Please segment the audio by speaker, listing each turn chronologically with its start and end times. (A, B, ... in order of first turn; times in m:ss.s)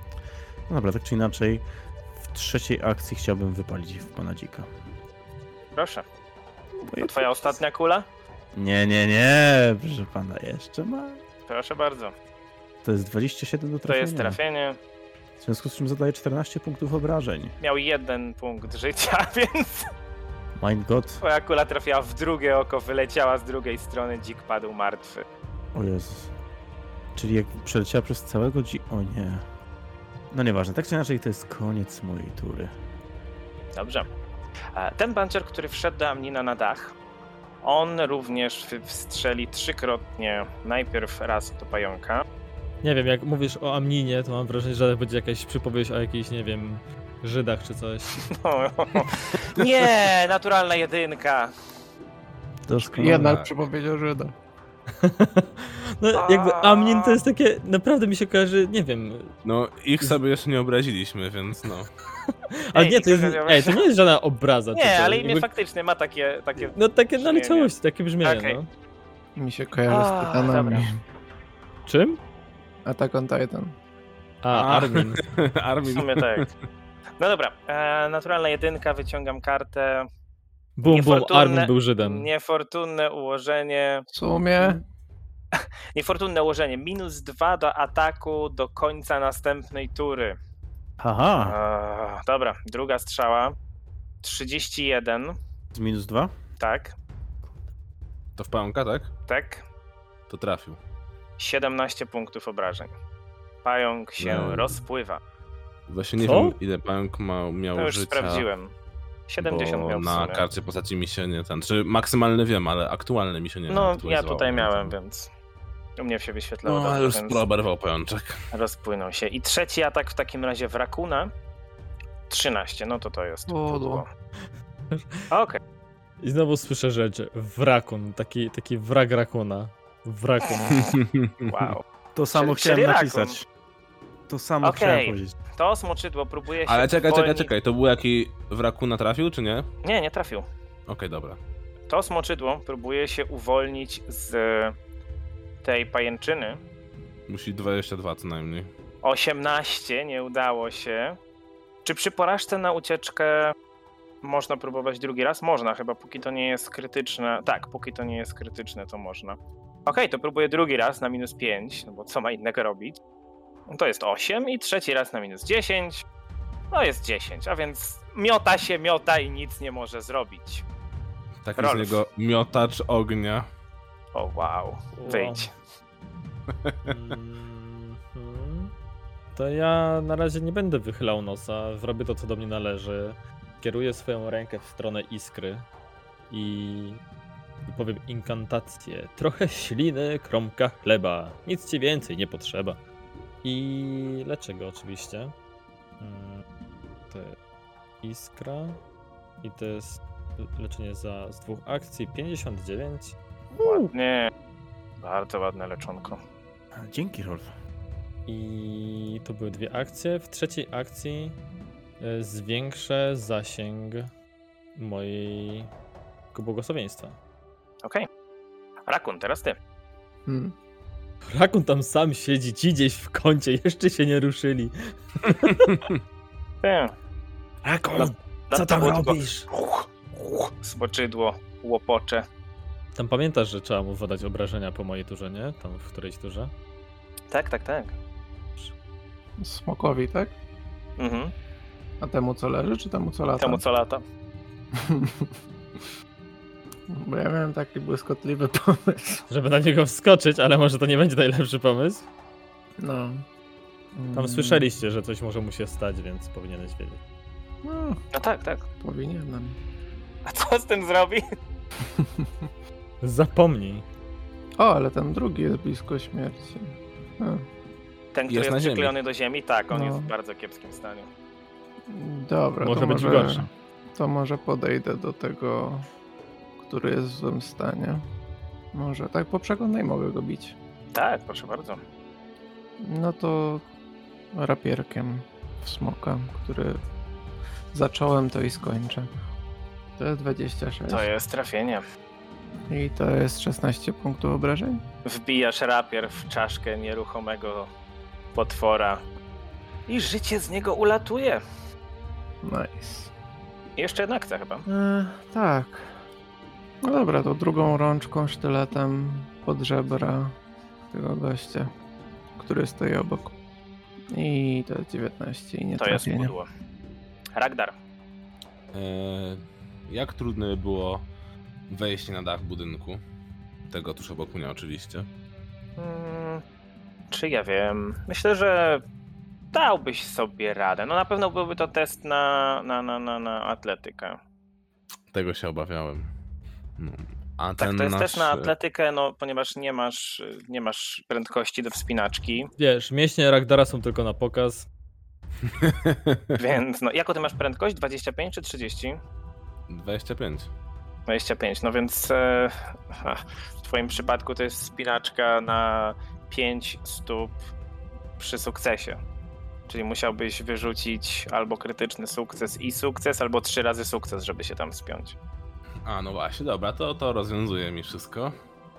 0:00.7-0:01.6 A
0:02.2-0:04.7 A
0:05.8-0:06.0 B
0:06.8-0:07.6 A
0:07.0-0:08.1 B
0:08.5-0:11.2 A
0:11.5-0:12.1 B
0:12.8-0:14.4 A
0:13.9-0:14.8 B
0:15.4-0:17.5 A
0:17.6-0:19.9 B
0:20.6-0:21.2 A
0:21.2-0:25.2 B
0:25.7-0:26.3 A
0:27.1-0:29.4 A
0:30.3-0:32.7 A
0:33.7-0:34.1 B
0:34.7-0:36.9 B
0:37.6-0:42.2 B
0:42.8-0:48.2 C
0:48.3-0:51.5 B
0:52.7-0:53.4 A
0:52.9-0:54.3 D
0:53.0-0:53.5 E
0:55.0-0:59.3 C
0:56.1-0:57.2 B
0:59.4-1:01.9 E
1:02.3-1:05.5 C
1:02.7-1:03.8 B
1:04.7-1:08.6 B
1:06.6-1:08.7 C
1:09.4-1:11.0 D
1:09.9-1:10.9 B
1:11.8-1:12.2 C
1:12.8-1:13.7 D
1:14.4-1:15.2 C
1:14.5-1:16.5 E
1:15.9-1:16.5 B
1:17.2-1:20.1 B
1:20.8-1:22.3 C
1:20.8-1:24.0 B
1:24.1-1:24.8 D
1:25.5-1:30.4 B
1:31.0-1:31.6 A
1:31.4-1:33.5 B
1:34.2-1:35.4 B
1:35.7-1:36.3 A
1:36.6-1:37.0 B
1:38.4-1:39.1 E
1:39.3-1:39.6 B
1:40.3-1:40.8 E
1:41.4-1:42.9 B
1:43.6-1:45.2 B
1:44.2-1:44.8 E
1:45.9-1:48.4 E
1:46.2-1:46.6 C
1:47.8-1:48.7 B
1:49.3-1:50.4 B
1:49.4-1:54.9 E
1:53.7-1:55.3 B
1:56.0-1:57.4 B
1:56.6-1:58.4 E
1:58.5-2:01.3 B
2:02.3-2:04.1 B
2:03.5-2:04.0 D
2:04.9-2:05.2 C
2:05.3-2:05.6 B
2:06.2-2:10.9 C
2:10.6-2:10.9 B
2:10.8-2:11.5 E
2:11.5-2:13.4 B
2:12.1-2:13.4 A
2:14.3-2:15.3 A
2:14.6-2:17.5 B
2:16.7-2:19.7 E
2:19.8-2:20.4 B
2:20.9-2:21.4 E
2:21.9-2:24.7 B
2:25.6-2:26.6 B
2:27.3-2:28.7 E
2:29.0-2:31.2 B
2:31.8-2:33.5 B
2:34.2-2:43.0 B
2:43.7-2:46.0 B
2:46.7-2:50.6 B
2:51.4-2:53.5 E
2:51.6-2:52.0 B
2:54.1-2:55.5 B
2:55.0-2:55.5 C
2:56.6-2:56.9 E
2:56.8-2:58.7 C
2:59.3-3:05.7 C
3:06.3-3:07.0 C
3:07.7-3:12.8 C
3:13.4-3:15.3 C
3:16.0-3:16.4 C
3:17.1-3:17.4 C
3:18.0-3:18.8 C
3:19.4-3:23.2 C
3:23.6-3:24.3 B
3:25.0-3:26.2 B
3:26.7-3:27.5 A
3:28.3-3:31.4 C
3:32.0-3:34.1 C
3:34.7-3:35.7 C
3:36.3-3:37.2 C
3:38.9-3:39.6 B
3:40.3-3:40.5 D
3:41.3-3:45.8 C
3:46.6-3:46.9 B
3:47.7-3:49.5 C
3:47.9-3:49.3 B
3:48.9-3:49.2 A
3:50.6-3:52.2 B
3:52.9-3:56.5 C
3:57.3-3:57.9 B
3:59.4-4:00.3 D
4:01.0-4:01.3 B
4:02.0-4:03.6 D
4:03.4-4:04.0 B
4:04.8-4:05.3 D
4:06.9-4:09.2 D
4:09.3-4:12.0 C
4:12.8-4:13.2 D
4:14.0-4:14.7 D
4:14.1-4:17.0 C
4:17.6-4:18.0 D
4:18.1-4:18.6 B
4:18.8-4:19.6 D
4:20.2-4:21.2 B
4:22.0-4:22.2 D
4:23.0-4:23.8 C
4:24.6-4:27.4 D
4:28.1-4:31.1 B
4:28.3-4:29.0 E
4:29.7-4:30.1 D
4:31.9-4:35.8 D
4:32.6-4:33.5 C
4:36.6-4:38.0 D
4:38.7-4:40.5 D
4:40.9-4:41.8 B
4:42.8-4:43.6 D
4:44.3-4:46.8 D
4:47.7-4:49.1 D
4:50.0-4:51.1 D
4:50.9-4:51.8 B
4:52.7-4:54.8 D
4:55.0-4:57.7 B
4:58.3-4:59.0 B
4:59.9-5:01.4 B
5:02.4-5:03.1 D
5:03.8-5:04.6 B
5:04.7-5:05.9 D
5:06.8-5:10.3 D
5:10.9-5:11.7 D
5:12.4-5:13.3 D
5:14.1-5:16.3 D
5:15.8-5:16.5 B
5:17.4-5:17.8 B
5:18.7-5:21.0 E
5:21.7-5:23.0 E
5:23.7-5:25.1 E
5:25.8-5:26.4 B
5:27.1-5:28.8 B
5:29.5-5:34.2 B
5:35.1-5:36.1 E
5:36.8-5:38.5 E
5:37.6-5:42.5 B
5:42.6-5:44.7 C
5:45.6-5:46.3 E
5:46.4-5:49.0 B
5:49.7-5:50.5 E
5:51.1-5:57.4 B
5:58.2-5:59.0 B
5:59.7-6:05.2 B
6:05.8-6:08.3 E